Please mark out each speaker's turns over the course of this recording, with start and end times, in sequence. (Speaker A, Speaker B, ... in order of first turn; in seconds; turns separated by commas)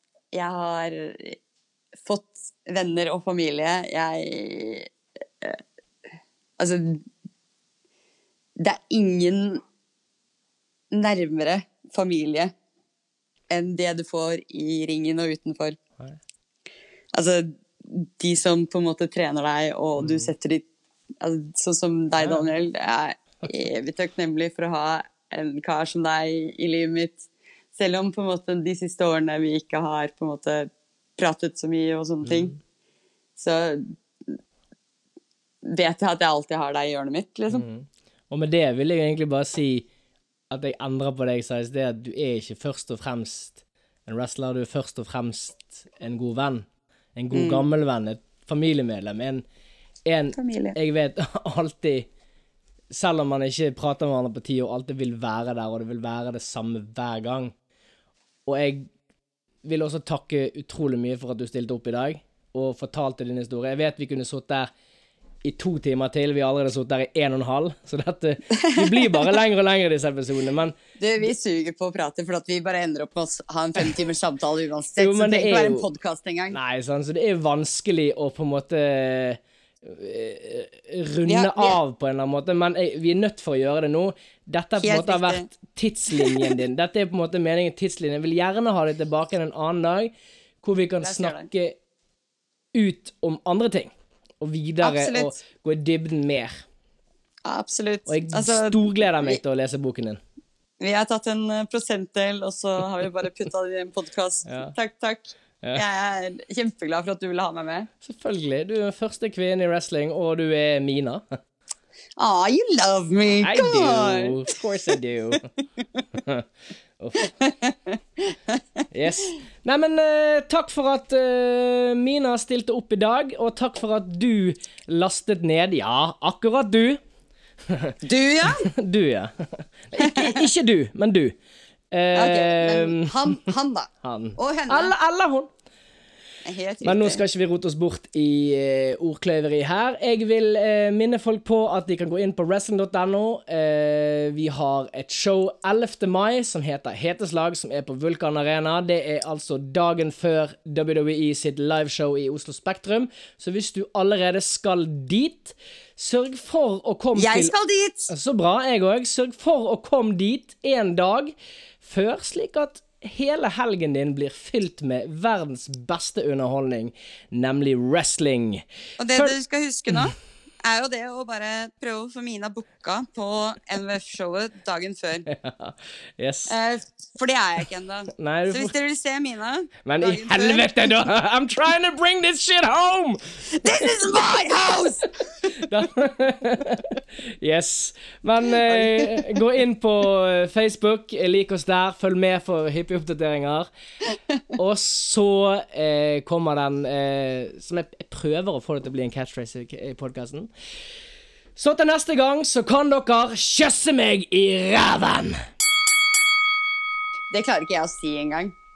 Speaker A: 0.3-1.4, Speaker A: 2.0-5.6, Speaker A: 6.6-7.1, Speaker A: 8.6-9.6, Speaker A: 10.9-12.5, Speaker A: 13.5-15.8, Speaker A: 17.1-20.6, Speaker B: 20.0-20.3, Speaker A: 21.2-32.5, Speaker B: 32.2-32.6, Speaker A: 33.4-34.4, Speaker A: 35.6-37.6, Speaker B: 37.5-39.9, Speaker B: 40.5-49.4, Speaker A: 47.3-47.7, Speaker B: 50.0-52.1, Speaker A: 50.3-50.8, Speaker B: 52.9-57.5, Speaker B: 58.5-58.9, Speaker B: 59.6-64.7, Speaker B: 65.4-71.3, Speaker A: 68.5-69.4, Speaker A: 71.0-76.6, Speaker B: 75.0-75.9, Speaker B: 76.5-91.8, Speaker A: 81.3-81.8, Speaker A: 84.8-85.5, Speaker A: 86.1-86.6, Speaker A: 91.0-91.5, Speaker B: 92.7-96.6, Speaker A: 94.8-95.4, Speaker A: 97.4-99.4, Speaker B: 98.1-100.2, Speaker A: 100.8-107.9, Speaker B: 104.5-104.7, Speaker B: 108.0-111.4, Speaker A: 112.2-114.5, Speaker B: 113.3-115.5, Speaker B: 116.1-116.5, Speaker B: 117.0-117.3, Speaker A: 117.2-118.6, Speaker B: 118.9-127.0, Speaker B: 127.7-131.3, Speaker A: 128.0-128.7, Speaker A: 130.0-130.4, Speaker B: 131.9-133.4, Speaker A: 132.1-134.9, Speaker B: 134.0-135.5, Speaker A: 136.4-137.2, Speaker B: 136.8-157.5, Speaker A: 157.1-158.1, Speaker B: 158.1-169.4, Speaker A: 169.0-175.3, Speaker B: 175.3-176.5, Speaker A: 176.5-180.7, Speaker B: 178.1-178.7, Speaker B: 179.8-183.9, Speaker A: 183.4-185.4, Speaker B: 185.5-193.7, Speaker A: 188.7-189.4, Speaker B: 194.5-200.5, Speaker B: 201.6-205.3, Speaker A: 207.3-208.5